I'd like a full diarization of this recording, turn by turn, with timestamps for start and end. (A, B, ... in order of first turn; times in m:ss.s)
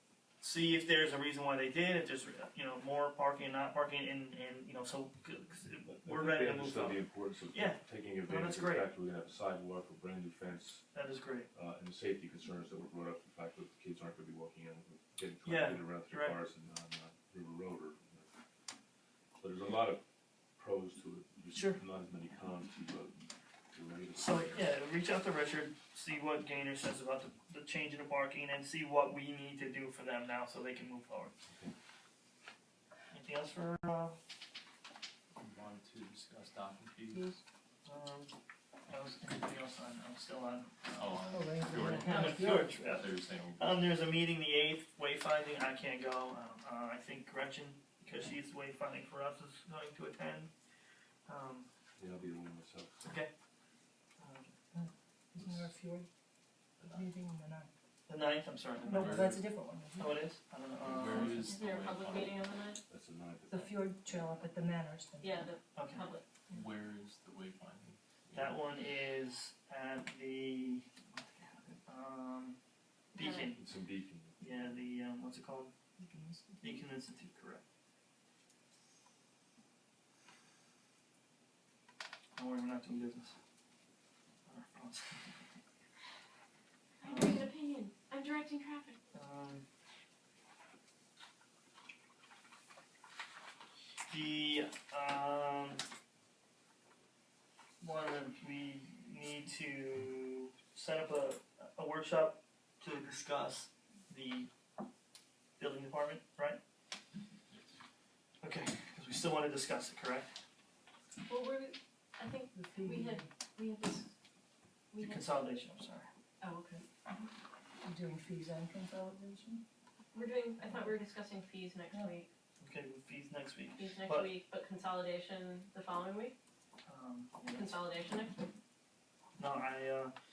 0:00.4-0:08.9 A
0:06.0-0:10.9 B
0:10.9-0:11.5 A
0:11.5-0:18.3 B
0:15.4-0:16.4 A
0:19.4-0:20.0 B
0:20.6-0:23.1 B
0:21.5-0:21.8 A
0:23.7-0:24.7 B
0:24.2-0:31.3 A
0:31.4-0:31.7 B
0:33.1-0:34.2 A
0:35.4-0:37.3 C
0:37.1-0:37.4 D
0:37.8-0:38.3 A
0:38.9-0:41.2 A
0:41.0-0:43.9 C
0:41.3-0:42.7 D
0:42.0-0:50.5 A
0:51.3-0:51.7 A
0:52.0-0:53.1 B
0:53.0-0:53.3 A
0:54.2-0:54.5 A
0:54.7-0:56.1 D
0:56.8-0:57.1 C
0:56.9-0:57.7 D
0:58.1-0:59.4 A
0:58.8-0:59.4 C
0:58.9-1:00.2 D
1:00.0-1:01.5 A
1:00.8-1:02.4 C
1:01.1-1:02.8 E
1:02.9-1:03.7 B
1:03.5-1:05.5 D
1:05.2-1:06.5 E
1:05.8-1:06.1 A
1:06.5-1:08.6 C
1:08.3-1:12.6 A
1:13.1-1:13.5 E
1:13.1-1:13.6 A
1:13.5-1:14.8 B
1:14.4-1:15.7 A
1:16.0-1:16.6 D
1:16.6-1:17.6 A
1:22.3-1:23.4 A
1:24.5-1:25.3 A
1:27.0-1:29.0 E
1:27.0-1:27.4 A
1:29.1-1:29.6 A
1:34.1-1:35.8 A
1:37.8-1:44.5 A
1:45.6-1:46.6 A
1:48.4-1:50.3 A
1:51.2-1:54.1 E
1:52.5-1:53.3 D
1:54.9-1:55.4 E
1:55.0-1:56.1 A
1:56.4-1:57.2 E
1:57.8-1:59.6 D
2:00.1-2:02.3 E
2:02.6-2:04.3 A
2:03.8-2:06.3 E
2:06.9-2:07.8 A
2:07.4-2:08.5 E
2:09.4-2:10.1 A